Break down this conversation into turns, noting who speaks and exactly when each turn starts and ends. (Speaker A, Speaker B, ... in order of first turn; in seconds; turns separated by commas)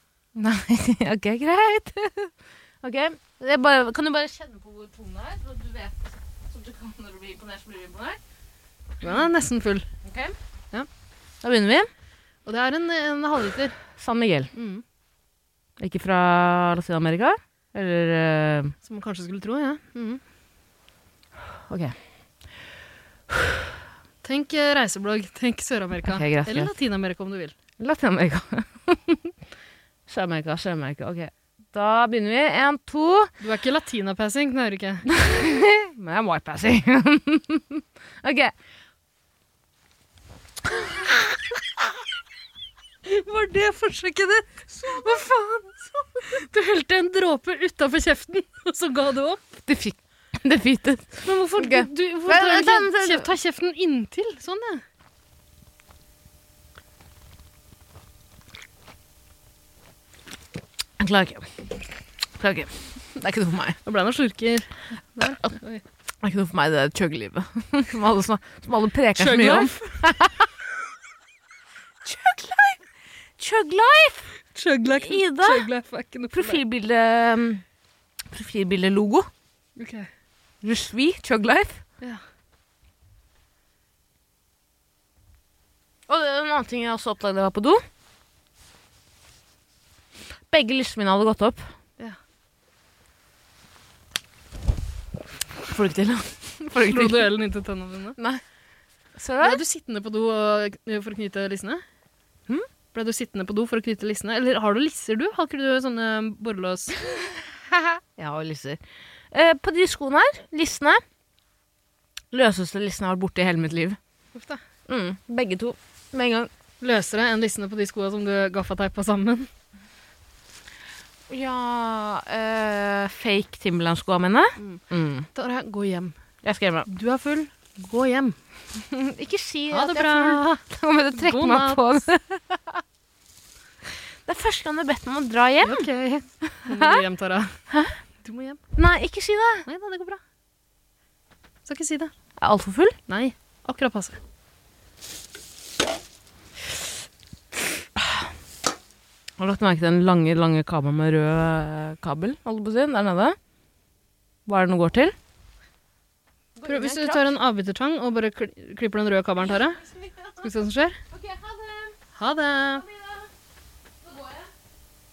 Speaker A: 0.3-8.2, Speaker B: 9.0-9.9, Speaker A: 10.0-10.3, Speaker A: 11.4-11.9, Speaker B: 12.4-13.8, Speaker A: 13.9-14.5, Speaker B: 14.5-14.8, Speaker A: 15.8-18.7, Speaker B: 18.8-20.2, Speaker A: 21.7-21.9, Speaker A: 23.3-23.6, Speaker B: 24.2-27.6, Speaker A: 26.1-26.7, Speaker A: 27.8-29.2, Speaker A: 30.1-33.3, Speaker B: 33.4-35.0, Speaker A: 35.1-38.5, Speaker A: 40.7-41.3, Speaker B: 43.0-49.4, Speaker A: 44.9-45.2, Speaker A: 49.6-53.3, Speaker B: 51.2-54.8, Speaker A: 61.0-61.7, Speaker A: 62.4-63.8, Speaker B: 63.8-65.8, Speaker A: 66.2-70.5, Speaker B: 69.2-69.9, Speaker A: 72.0-72.8, Speaker A: 73.4-74.3, Speaker B: 74.5-76.6, Speaker A: 75.0-75.7, Speaker A: 76.3-77.6, Speaker A: 78.3-79.3, Speaker B: 79.8-80.1, Speaker A: 80.6-81.8, Speaker A: 86.1-87.8, Speaker A: 90.5-91.7, Speaker A: 95.7-97.3, Speaker B: 96.9-98.2, Speaker A: 98.2-98.4, Speaker A: 99.2-99.6, Speaker B: 99.4-101.8, Speaker B: 102.9-107.0, Speaker A: 108.2-111.0, Speaker A: 112.3-114.0, Speaker B: 114.3-114.6, Speaker A: 114.9-116.5, Speaker B: 116.8-119.5, Speaker A: 121.3-125.3, Speaker B: 125.3-126.2, Speaker A: 126.4-126.9, Speaker B: 126.8-128.3, Speaker A: 128.7-132.8, Speaker B: 129.7-130.6, Speaker B: 131.1-131.8, Speaker A: 134.2-135.9, Speaker B: 135.6-137.6, Speaker A: 136.7-137.0, Speaker A: 137.7-137.9, Speaker B: 138.2-138.6, Speaker A: 138.7-139.7, Speaker B: 139.7-140.2, Speaker B: 141.6-142.1, Speaker A: 142.4-143.0, Speaker B: 143.1-144.2, Speaker A: 148.0-148.3, Speaker A: 149.4-153.4, Speaker A: 154.4-155.2, Speaker A: 156.6-157.3, Speaker B: 156.7-159.8, Speaker A: 159.5-160.5, Speaker B: 160.4-161.0, Speaker A: 161.1-162.0, Speaker B: 162.1-162.8, Speaker A: 162.5-163.3, Speaker A: 164.0-164.5